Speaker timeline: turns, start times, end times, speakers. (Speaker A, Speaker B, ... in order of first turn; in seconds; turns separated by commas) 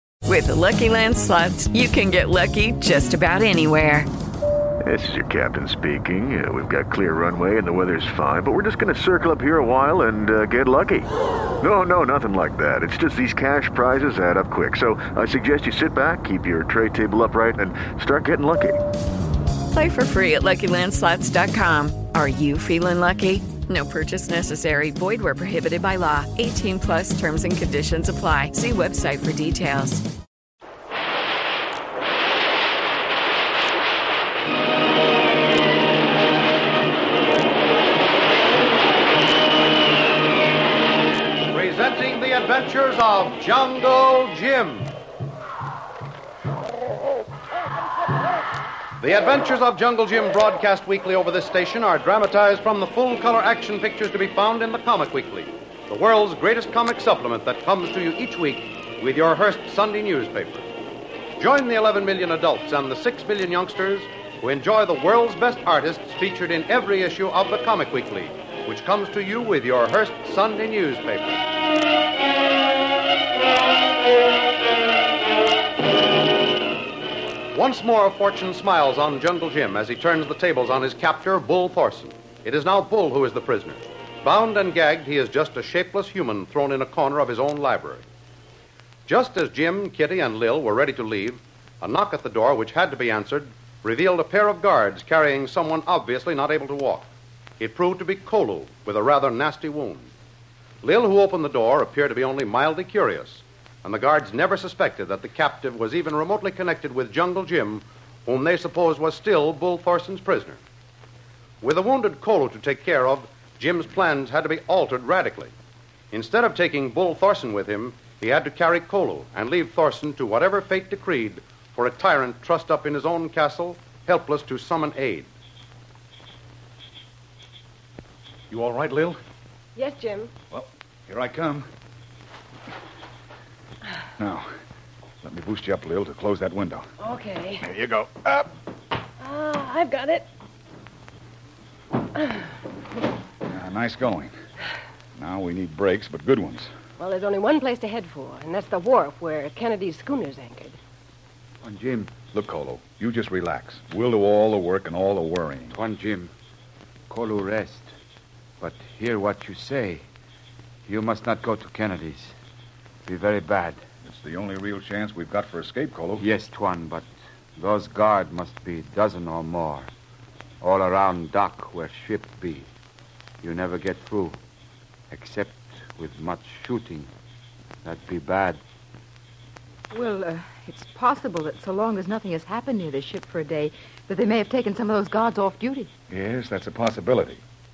Speaker A: 0.2-4.1, Speaker B: 4.8-11.1, Speaker B: 11.6-18.8, Speaker A: 19.7-30.0, Speaker C: 41.4-44.9, Speaker C: 49.0-60.7, Speaker C: 61.4-71.4, Speaker C: 77.5-88.0, Speaker C: 89.1-97.1, Speaker C: 97.6-100.1, Speaker C: 100.8-110.6, Speaker C: 111.6-115.5, Speaker C: 116.1-125.3, Speaker D: 128.5-129.2, Speaker E: 129.7-130.3, Speaker D: 130.5-131.7, Speaker D: 134.2-134.5, Speaker D: 135.2-136.9, Speaker E: 137.0-137.7, Speaker D: 137.6-138.5, Speaker E: 139.2-140.2, Speaker D: 143.5-144.3, Speaker D: 145.1-146.7, Speaker E: 147.0-150.8, Speaker F: 151.6-152.1, Speaker D: 152.3-155.8, Speaker F: 155.7-156.3, Speaker F: 157.1-157.9, Speaker F: 158.6-160.0, Speaker F: 160.8-162.3, Speaker F: 163.1-163.8, Speaker D: 164.0-166.3, Speaker F: 166.2-169.9, Speaker F: 170.6-172.7, Speaker F: 173.4-174.4, Speaker F: 175.1-177.1, Speaker F: 177.8-178.6, Speaker G: 179.9-185.9, Speaker D: 186.1-187.4